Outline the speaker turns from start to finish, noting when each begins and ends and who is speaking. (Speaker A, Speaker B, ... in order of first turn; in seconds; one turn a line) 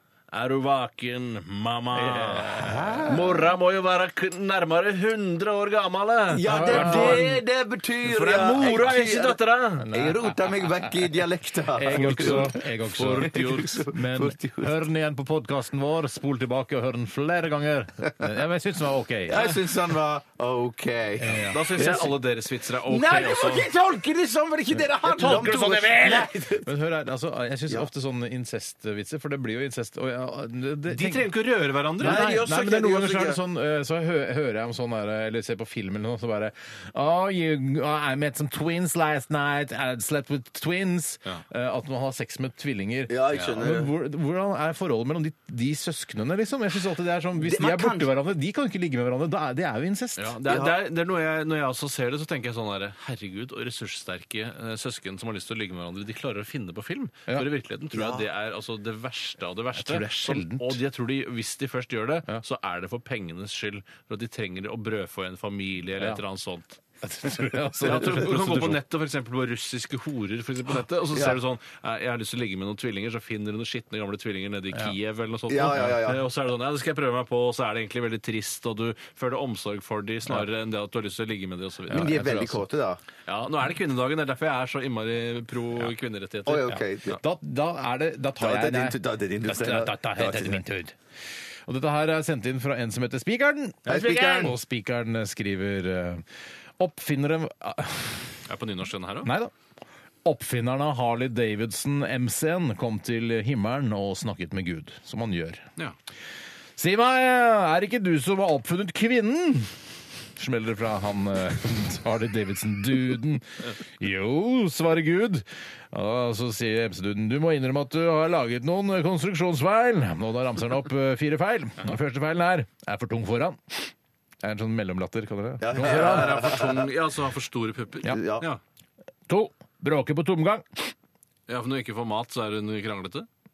Speaker A: 0.3-7.4
Speaker B: 1.9-3.1
Speaker C: 2.5-3.5
Speaker C: 6.3-9.4
Speaker B: 6.4-7.4
Speaker A: 8.0-9.9
Speaker B: 8.2-9.0
Speaker B: 9.8-11.1
Speaker C: 9.9-14.7
Speaker B: 11.7-19.6
Speaker A: 13.0-13.8
Speaker C: 19.3-22.2
Speaker B: 21.2-22.0
Speaker A: 21.4-23.7
Speaker C: 22.7-26.7
Speaker A: 25.0-26.3
Speaker B: 25.2-25.7
Speaker B: 26.5-31.3
Speaker A: 30.9-32.3
Speaker B: 32.0-50.4
Speaker C: 32.0-33.4
Speaker C: 43.1-43.9
Speaker C: 47.4-48.1
Speaker A: 50.2-66.8
Speaker C: 50.5-50.8
Speaker C: 57.9-58.2
Speaker B: 59.7-60.8
Speaker B: 67.0-68.8
Speaker A: 67.8-82.2
Speaker C: 71.1-71.4
Speaker C: 75.5-76.2
Speaker B: 81.9-82.6
Speaker C: 81.9-83.0
Speaker A: 83.2-86.8
Speaker C: 86.5-87.2
Speaker B: 86.7-91.0
Speaker C: 88.4-90.6
Speaker B: 91.7-96.2
Speaker C: 93.8-94.5
Speaker B: 96.8-98.4
Speaker A: 98.5-99.3
Speaker B: 99.2-99.5
Speaker B: 100.2-105.7
Speaker B: 106.8-126.4
Speaker C: 125.6-126.9
Speaker A: 125.8-128.6
Speaker C: 128.0-128.5
Speaker B: 129.3-130.9
Speaker A: 131.5-133.3